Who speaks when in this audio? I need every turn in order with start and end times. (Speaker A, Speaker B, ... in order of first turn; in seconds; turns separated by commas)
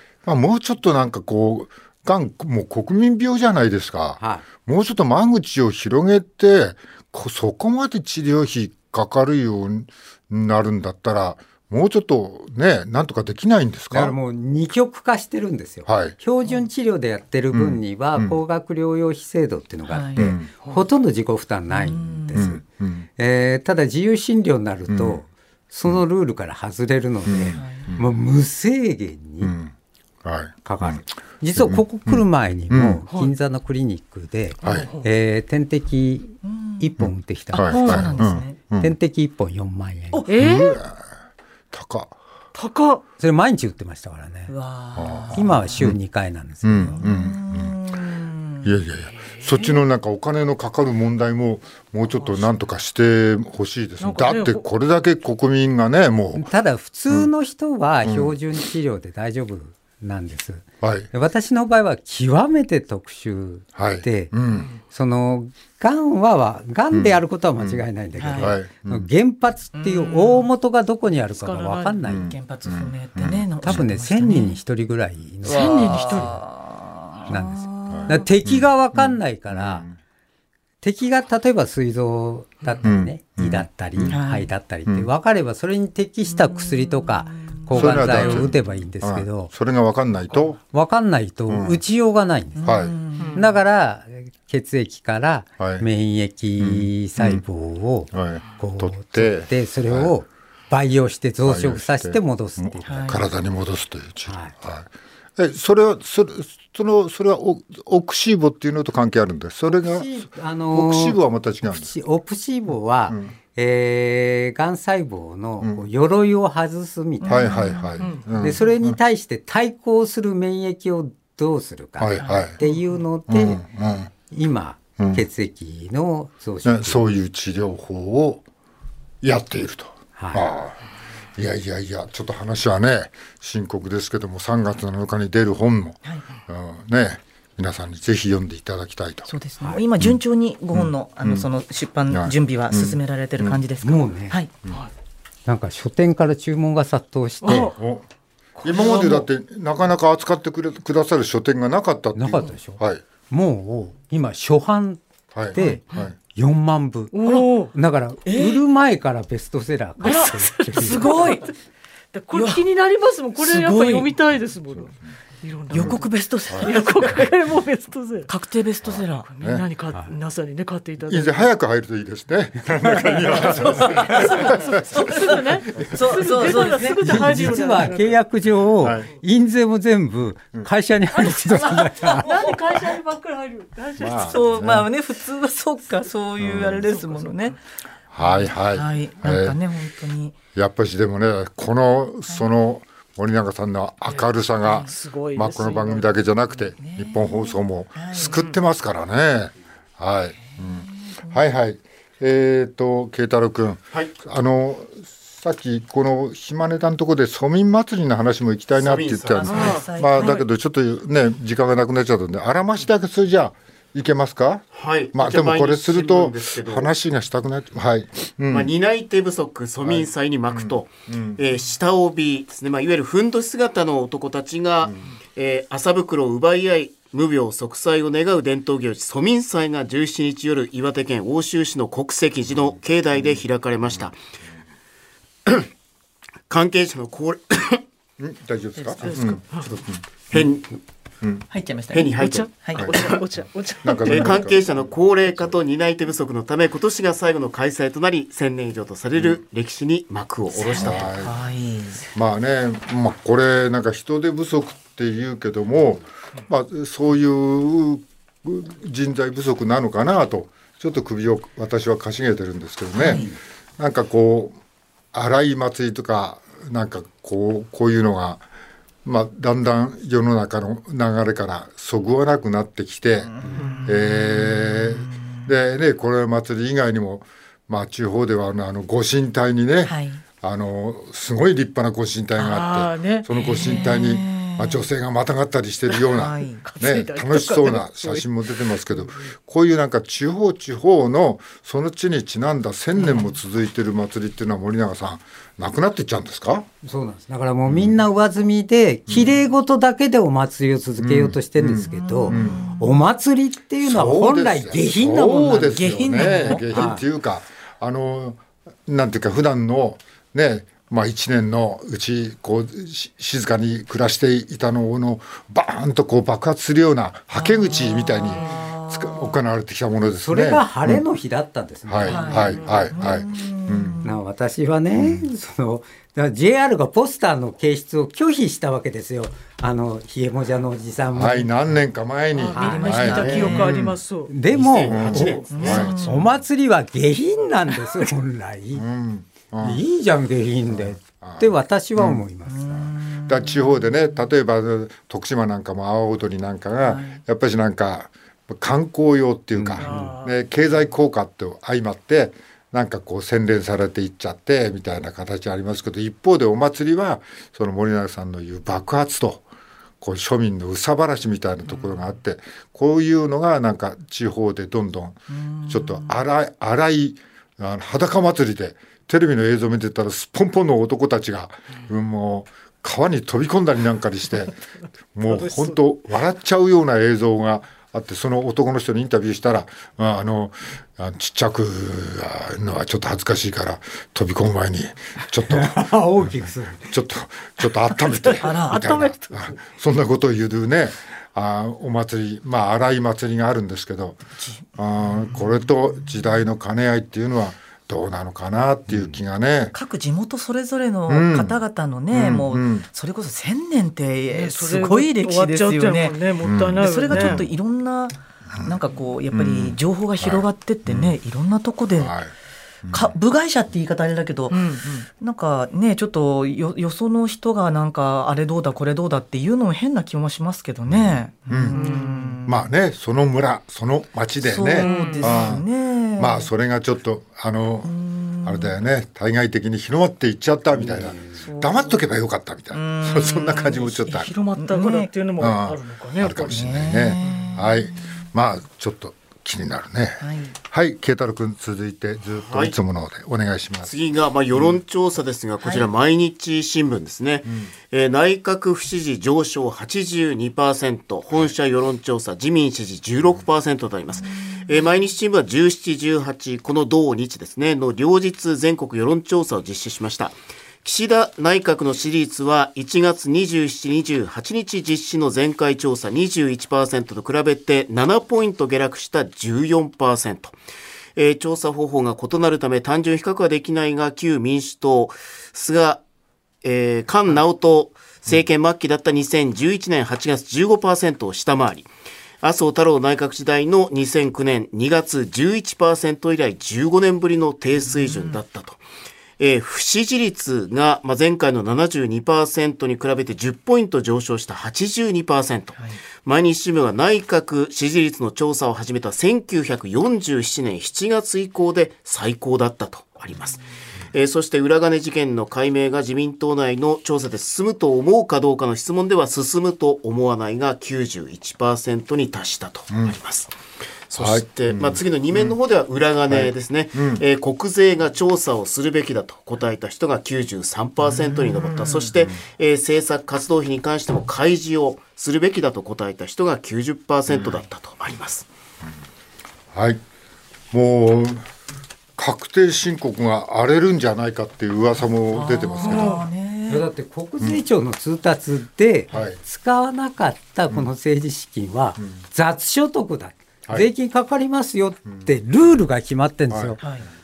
Speaker A: 0.2-14.2, Speaker B: 4.2-4.5, Speaker B: 13.9-22.6, Speaker A: 15.9-16.2, Speaker A: 17.5-18.4, Speaker C: 19.9-20.3, Speaker A: 20.2-20.5, Speaker C: 21.7-22.5, Speaker A: 22.4-23.1, Speaker B: 23.2-29.6, Speaker A: 24.9-25.2, Speaker A: 27.3-28.1, Speaker C: 27.5-27.9, Speaker A: 29.4-33.0, Speaker B: 30.6-40.3, Speaker A: 34.6-34.9, Speaker D: 34.6-35.1, Speaker C: 36.4-36.9, Speaker A: 37.0-38.9, Speaker C: 37.5-38.6, Speaker D: 37.7-38.1, Speaker D: 40.3-40.8, Speaker A: 40.4-41.0, Speaker A: 41.7-42.2, Speaker D: 42.5-43.0, Speaker B: 43.2-44.5, Speaker C: 44.5-45.9, Speaker A: 45.0-46.0, Speaker B: 45.3-47.0, Speaker A: 46.6-47.8, Speaker C: 47.0-48.7, Speaker A: 48.6-56.5, Speaker D: 49.3-49.8, Speaker D: 52.2-52.5, Speaker D: 54.0-54.6, Speaker B: 56.4-72.3, Speaker A: 58.0-58.4, Speaker A: 60.8-61.1, Speaker A: 63.8-64.7, Speaker A: 66.9-67.8, Speaker C: 68.2-68.5, Speaker A: 68.4-69.1, Speaker C: 69.8-70.5, Speaker D: 71.4-72.0, Speaker A: 72.0-73.8, Speaker C: 72.3-74.6, Speaker B: 73.7-76.3, Speaker C: 75.5-78.3, Speaker D: 75.5-76.3, Speaker B: 77.3-79.9, Speaker A: 77.9-80.0, Speaker B: 80.8-89.5, Speaker A: 82.8-84.2, Speaker C: 84.1-84.5, Speaker C: 86.3-88.1, Speaker A: 87.7-90.6, Speaker B: 90.7-103.2, Speaker A: 91.5-91.8, Speaker C: 92.6-93.5, Speaker A: 92.6-92.9, Speaker D: 93.2-93.5, Speaker A: 95.6-95.9, Speaker A: 96.6-97.4, Speaker A: 98.1-100.1, Speaker A: 101.4-111.9, Speaker C: 102.9-103.2, Speaker B: 104.3-104.5, Speaker B: 109.7-117.5, Speaker A: 113.1-113.3, Speaker A: 115.6-115.9, Speaker C: 117.2-117.9, Speaker A: 117.3-119.0, Speaker D: 118.0-118.3, Speaker B: 118.4-123.6, Speaker A: 122.0-122.6, Speaker C: 122.2-122.5, Speaker A: 123.3-124.1, Speaker B: 124.3-127.1, Speaker A: 125.0-125.2, Speaker A: 126.6-128.4, Speaker A: 129.2-130.8, Speaker B: 130.2-130.5, Speaker A: 131.3-139.3, Speaker C: 139.3-144.5, Speaker A: 140.7-141.5, Speaker A: 142.1-143.6, Speaker B: 143.8-144.4, Speaker B: 145.5-147.7, Speaker D: 147.4-147.7, Speaker A: 147.5-148.1, Speaker D: 148.6-149.3, Speaker A: 148.6-153.0, Speaker B: 152.2-155.0, Speaker A: 155.3-156.1, Speaker B: 155.5-161.3, Speaker D: 157.1-157.7, Speaker C: 158.3-158.6, Speaker D: 160.0-161.5, Speaker C: 160.8-161.5, Speaker D: 162.1-168.3, Speaker C: 162.3-162.6, Speaker C: 163.4-164.1, Speaker C: 165.7-167.2, Speaker A: 165.7-166.7, Speaker C: 168.3-169.3, Speaker A: 168.8-169.7, Speaker D: 169.2-171.5, Speaker A: 171.1-176.0, Speaker D: 173.4-178.2, Speaker C: 173.5-177.2, Speaker B: 176.6-182.3, Speaker A: 178.8-179.1, Speaker C: 181.5-182.6, Speaker D: 182.0-184.6, Speaker A: 184.0-184.9, Speaker C: 184.1-187.6, Speaker A: 186.4-186.9, Speaker D: 187.0-187.6, Speaker A: 188.1-189.6, Speaker C: 188.2-190.4, Speaker A: 190.6-218.7, Speaker C: 194.6-194.9, Speaker D: 194.8-196.1, Speaker C: 196.8-198.4, Speaker C: 200.5-201.4, Speaker E: 208.7-209.8, Speaker C: 209.3-210.5, Speaker D: 209.5-209.8, Speaker E: 214.8-216.9, Speaker E: 218.5-234.2, Speaker A: 219.8-221.4, Speaker E: 236.5-237.8, Speaker A: 238.2-240.5, Speaker D: 239.0-239.7, Speaker E: 240.3-240.8, Speaker C: 241.5-242.1, Speaker E: 241.9-243.2, Speaker D: 242.2-244.4, Speaker C: 242.6-242.9, Speaker A: 242.8-243.1, Speaker A: 243.8-244.9, Speaker E: 244.0-251.2, Speaker C: 250.5-252.1, Speaker A: 250.7-251.4, Speaker A: 252.1-264.6, Speaker C: 263.0-263.3, Speaker A: 265.1-268.4, Speaker A: 269.0-296.7, Speaker C: 273.4-275.4, Speaker C: 279.9-280.2, Speaker D: 282.4-283.9, Speaker C: 283.4-284.9, Speaker C: 286.1-286.6, Speaker D: 286.6-288.3, Speaker C: 293.0-293.3, Speaker B: 296.8-307.0, Speaker A: 297.7-298.0, Speaker A: 299.1-299.3, Speaker A: 301.0-302.7, Speaker C: 301.9-303.0, Speaker A: 303.8-321.1, Speaker C: 305.6-306.9, Speaker C: 317.3-319.4, Speaker B: 320.2-322.5, Speaker A: 321.9-324.1, Speaker C: 322.1-324.1, Speaker D: 322.2-322.9, Speaker B: 324.0-331.5, Speaker A: 325.0-325.3, Speaker A: 331.1-334.0, Speaker D: 332.3-334.3, Speaker C: 332.6-333.9, Speaker B: 332.6-333.2, Speaker B: 334.3-338.9, Speaker E: 334.5-336.3, Speaker A: 334.9-336.0, Speaker C: 335.5-336.3, Speaker A: 338.8-339.8, Speaker B: 339.6-342.9, Speaker A: 340.7-342.2, Speaker C: 342.5-344.1, Speaker A: 343.2-359.4, Speaker C: 346.8-347.2, Speaker B: 349.5-350.2, Speaker D: 349.8-350.4, Speaker A: 360.0-374.6, Speaker C: 365.3-366.2, Speaker A: 375.1-394.2, Speaker D: 375.3-375.7, Speaker B: 385.5-386.9, Speaker D: 388.3-389.5, Speaker C: 388.4-388.9, Speaker A: 394.8-399.7, Speaker C: 399.7-406.2, Speaker A: 401.1-401.6, Speaker A: 402.1-402.9, Speaker D: 404.3-407.5, Speaker A: 406.4-407.5, Speaker C: 406.7-412.2, Speaker A: 409.3-411.1, Speaker A: 412.0-412.3, Speaker A: 412.8-413.1, Speaker C: 412.9-422.6, Speaker D: 414.5-415.1, Speaker A: 420.9-421.9, Speaker D: 421.7-422.4, Speaker A: 422.5-425.6, Speaker C: 424.4-426.5, Speaker D: 424.7-425.5, Speaker A: 426.2-434.3, Speaker C: 427.9-428.7, Speaker B: 430.8-431.5, Speaker C: 432.7-435.1, Speaker D: 434.1-436.6, Speaker A: 435.4-444.0, Speaker C: 436.4-438.1, Speaker D: 437.3-437.6, Speaker C: 440.2-440.6, Speaker E: 442.4-442.8, Speaker E: 443.8-470.6, Speaker A: 444.5-444.8, Speaker C: 445.6-445.9, Speaker A: 447.5-447.7, Speaker C: 454.3-454.6, Speaker E: 471.2-476.0, Speaker E: 476.6-481.9, Speaker E: 482.4-488.8, Speaker C: 487.9-488.4, Speaker E: 489.4-503.6, Speaker E: 504.1-513.5, Speaker E: 514.1-528.5, Speaker A: 514.2-515.6, Speaker A: 516.3-517.2, Speaker C: 521.0-522.1, Speaker A: 527.3-527.6, Speaker A: 529.7-530.0, Speaker A: 530.7-531.5, Speaker A: 532.2-536.2, Speaker C: 535.3-536.9, Speaker D: 535.8-536.3, Speaker B: 536.7-546.8, Speaker A: 539.1-539.4, Speaker A: 546.5-547.0, Speaker C: 546.8-547.1